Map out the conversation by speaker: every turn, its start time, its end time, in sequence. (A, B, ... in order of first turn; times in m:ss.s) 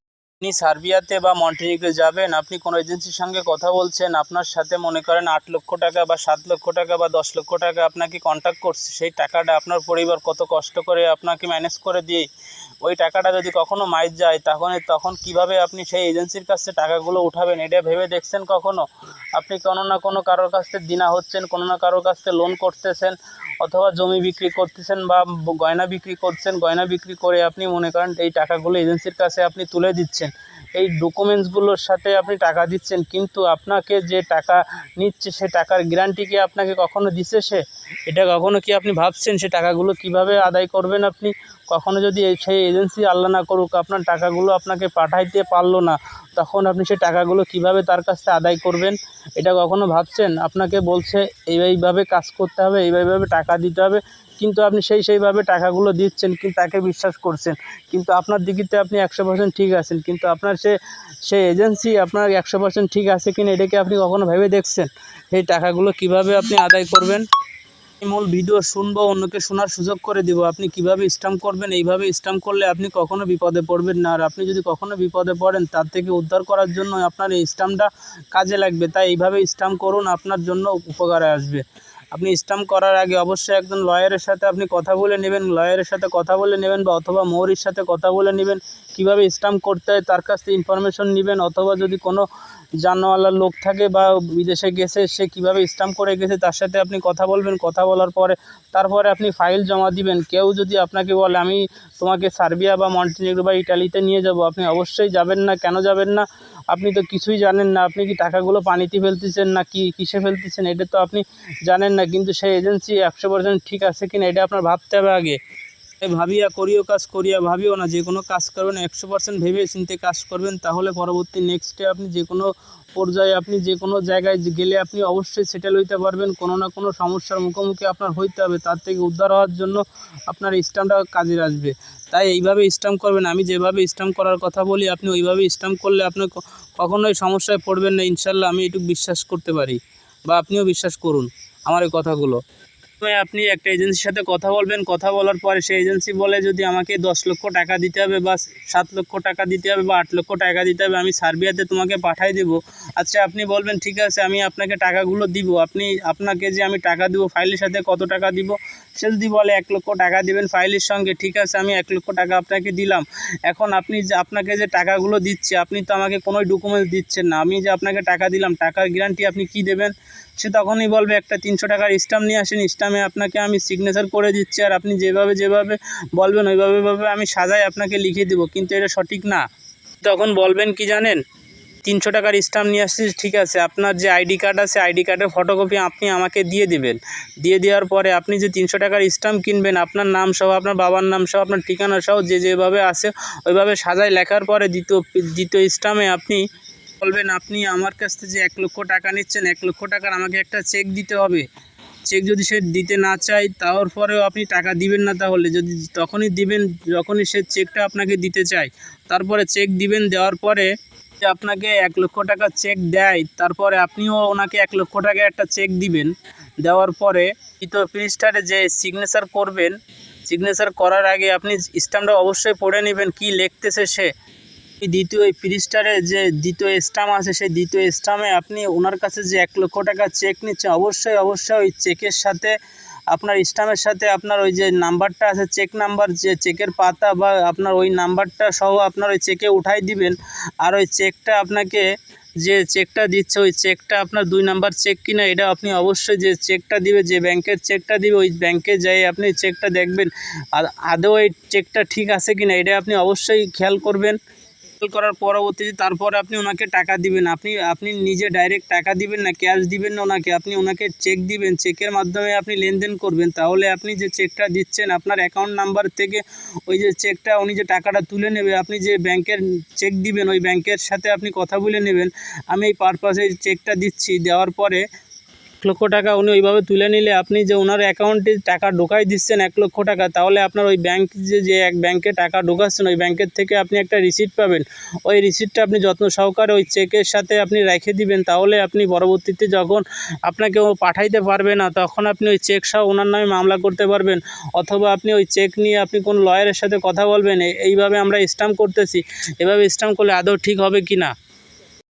0:00.4-0:12.3 A
0:12.8-0:18.8 A
0:19.4-1:00.7 A
1:01.3-1:07.2 A
1:08.0-1:32.2 A
1:32.8-1:55.4 A
1:56.0-2:22.4 A
2:23.0-2:59.4 A
3:00.0-3:01.2 A
3:01.8-3:16.4 A
3:17.0-3:21.4 A
3:22.1-3:30.7 A
3:31.2-3:36.1 A
3:36.6-3:39.7 A
3:40.3-3:44.1 A
3:44.8-3:52.5 A
3:53.1-4:01.9 A
4:02.4-4:14.2 A
4:14.8-4:34.8 A
4:35.6-5:01.1 A